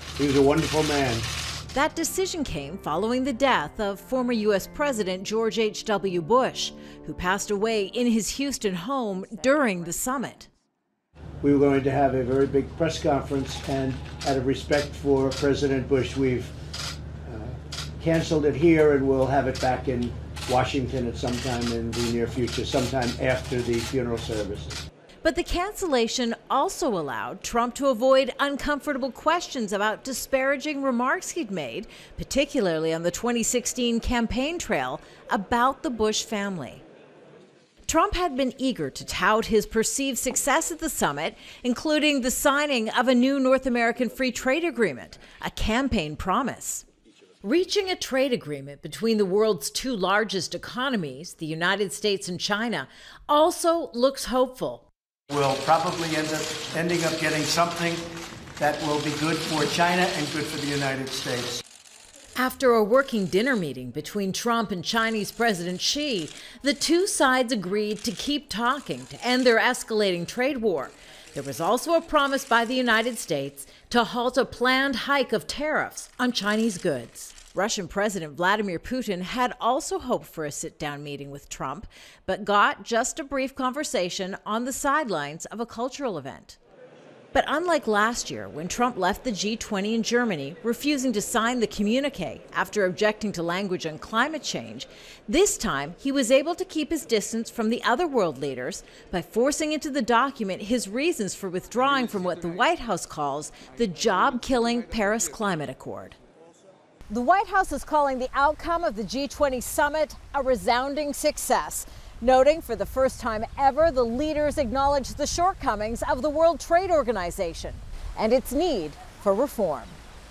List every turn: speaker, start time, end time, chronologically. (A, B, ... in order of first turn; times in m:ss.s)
0:00.2-0:01.3 A
0:01.7-0:10.5 B
0:11.4-0:16.5 A
0:17.2-0:24.8 A
0:25.2-0:36.8 B
0:37.9-0:46.8 B
0:47.4-0:54.9 B
0:55.3-1:01.6 A
1:02.4-1:26.6 B
1:27.3-1:46.2 B
1:47.1-2:00.0 B